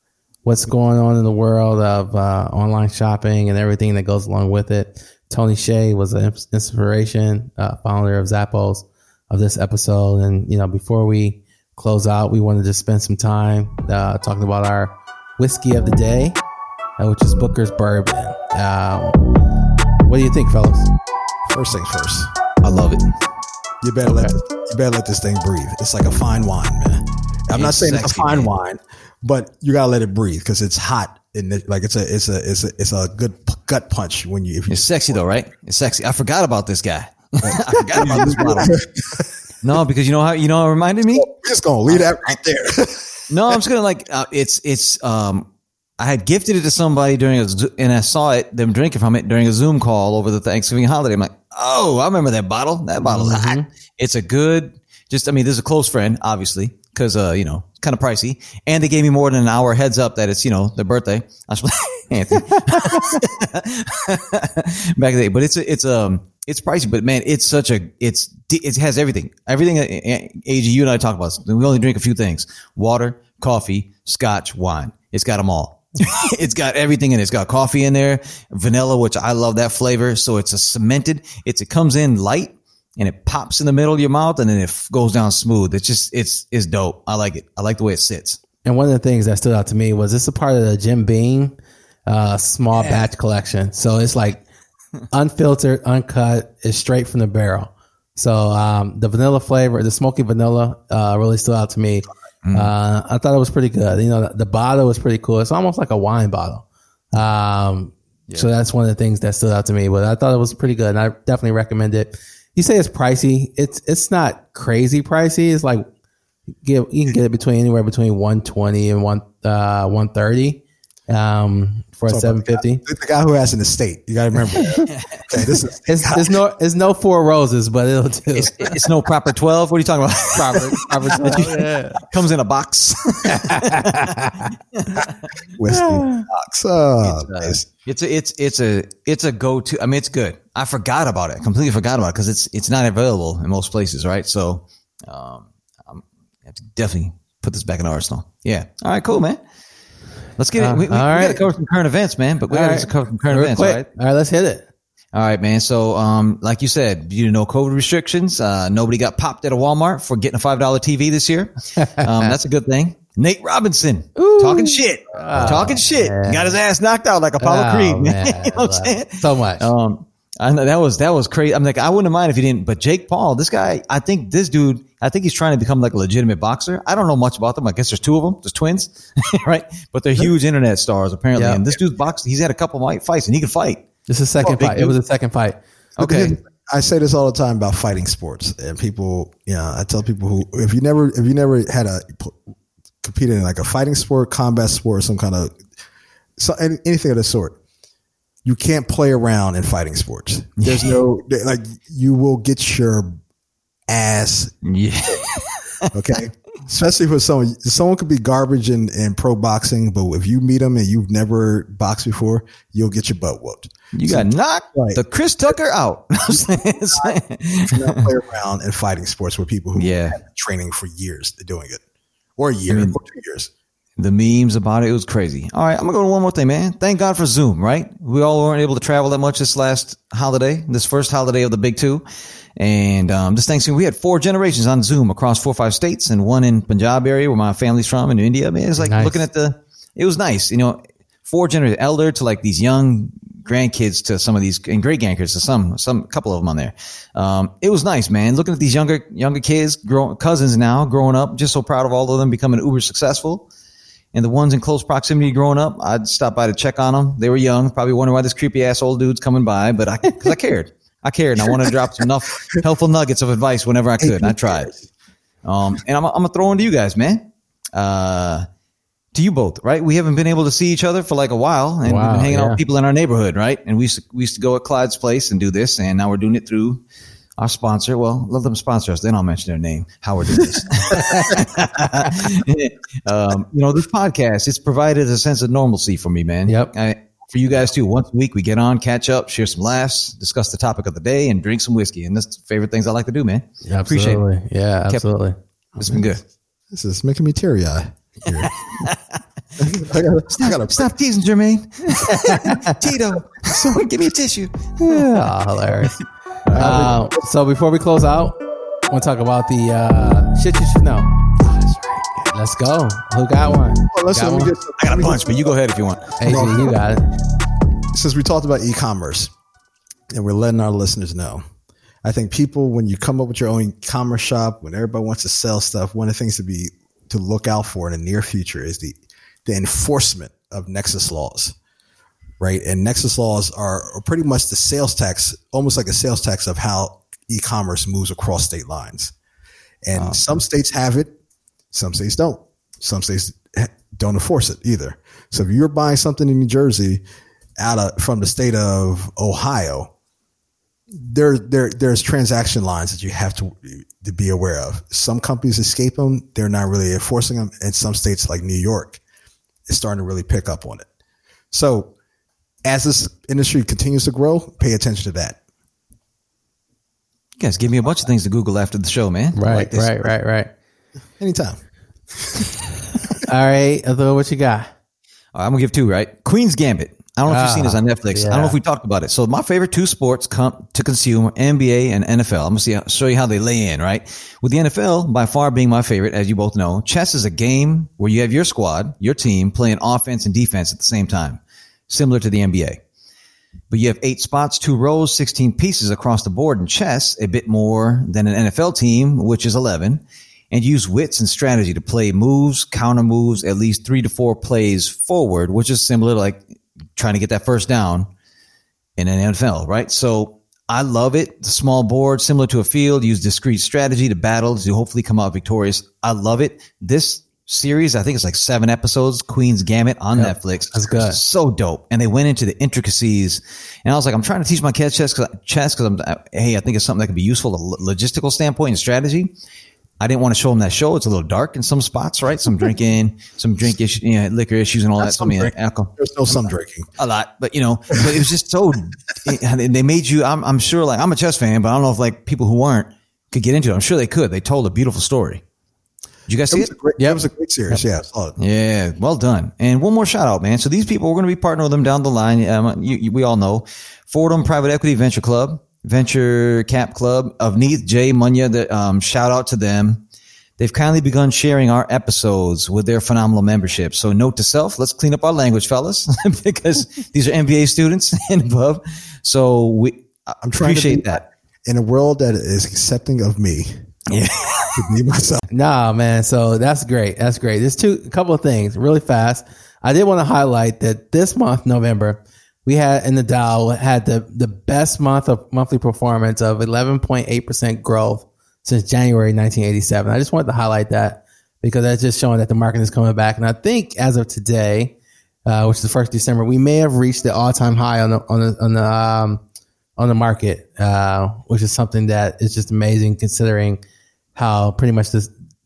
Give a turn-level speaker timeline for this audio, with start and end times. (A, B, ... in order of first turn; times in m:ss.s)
0:00.4-0:16.4 A
0:17.0-0:19.2 A
0:20.0-0:20.9 A
0:21.5-0:22.3 B
0:22.6-0:23.1 C
0:23.8-0:35.2 B
0:24.1-0:24.3 A
0:27.5-0:28.5 C
0:34.7-0:38.8 C
0:37.4-0:39.3 B
0:39.6-0:41.2 C
0:41.1-0:43.6 B
0:43.3-0:45.5 C
0:46.0-1:28.4 C
0:53.0-0:53.6 A
1:28.6-1:31.5 A
1:32.1-1:34.4 A
1:32.8-1:33.0 C
1:35.1-1:55.8 A
1:42.4-1:42.7 C
1:56.6-2:02.8 A
2:02.1-2:06.3 B
2:04.5-2:04.8 A
2:04.8-2:05.2 C
2:05.9-2:08.8 A
2:08.3-2:15.2 C
2:10.3-2:12.0 A
2:13.4-2:14.5 A
2:15.6-2:17.6 B
2:15.7-2:16.2 A
2:17.0-2:29.4 C
2:30.4-2:33.8 C
2:30.6-2:31.5 A
2:32.5-2:34.6 A
2:35.1-3:03.8 C
2:41.8-2:42.4 A
2:44.2-2:46.6 A
2:45.3-2:45.7 B
2:47.4-2:49.7 A
3:01.3-3:01.6 A
3:04.1-3:05.6 A
3:04.4-3:05.0 C
3:06.0-3:06.4 C
3:06.0-3:12.4 B
3:13.0-3:15.5 B
3:16.4-3:17.6 B
3:18.4-3:23.1 B
3:20.6-3:21.0 C
3:23.9-3:24.5 B
3:24.6-3:25.9 C
3:25.9-3:35.0 B
3:33.9-3:38.1 C
3:36.3-3:41.8 B
3:39.8-3:40.2 C
3:42.4-3:43.5 B
3:42.7-3:43.0 C
3:44.0-3:52.0 C
3:52.6-4:13.5 C
3:58.8-3:59.2 A
4:14.1-4:24.7 C
4:24.0-4:24.8 B
4:25.4-4:27.2 C
4:27.7-4:28.4 C
4:29.1-4:36.8 C
4:31.8-4:32.6 A
4:37.4-4:54.2 C
4:40.9-4:41.4 A
4:53.7-4:55.4 A
4:55.8-4:56.2 B
4:55.8-4:56.2 C
4:56.7-4:58.5 B
4:58.3-5:06.9 C
4:59.6-5:00.9 B
5:02.0-5:02.8 A
5:04.9-5:05.9 A
5:06.5-5:07.2 B
5:06.6-5:08.4 A
5:08.9-5:11.1 A
5:11.4-5:12.3 B
5:12.3-5:14.5 A
5:13.9-5:15.5 B
5:14.8-5:16.4 C
5:16.2-5:17.1 A
5:16.2-5:16.7 B
5:17.9-5:19.3 B
5:20.1-5:21.4 B
5:22.0-5:31.6 B
5:32.4-5:39.1 B
5:39.8-5:41.1 B
5:39.9-5:40.2 C
5:41.7-5:47.0 B
5:47.6-5:49.9 B
5:50.9-5:59.0 B
5:59.7-6:00.9 B
6:01.5-6:01.9 B
6:02.6-6:05.4 B
6:07.4-6:09.5 C
6:09.3-6:10.5 A
6:09.5-6:10.1 B
6:11.2-6:11.6 B
6:12.2-6:12.5 B
6:13.2-6:14.7 A
6:15.3-6:32.8 C
6:17.3-6:18.6 A
6:33.7-6:46.4 C
6:47.0-6:48.1 C
6:49.0-7:09.3 C
7:00.2-7:01.2 A
7:10.0-7:16.4 C
7:15.0-7:16.9 B
7:17.0-7:25.4 C
7:18.0-7:18.3 B
7:26.3-7:26.7 C
7:26.5-7:28.3 B
7:27.0-7:27.8 A
7:28.4-7:40.0 C
7:40.6-7:51.2 C
7:50.4-7:54.0 B
7:54.1-7:54.8 C
7:54.7-7:55.4 B
7:55.5-8:14.9 A
8:15.4-8:19.4 A
8:20.0-8:23.8 A
8:24.3-8:25.3 A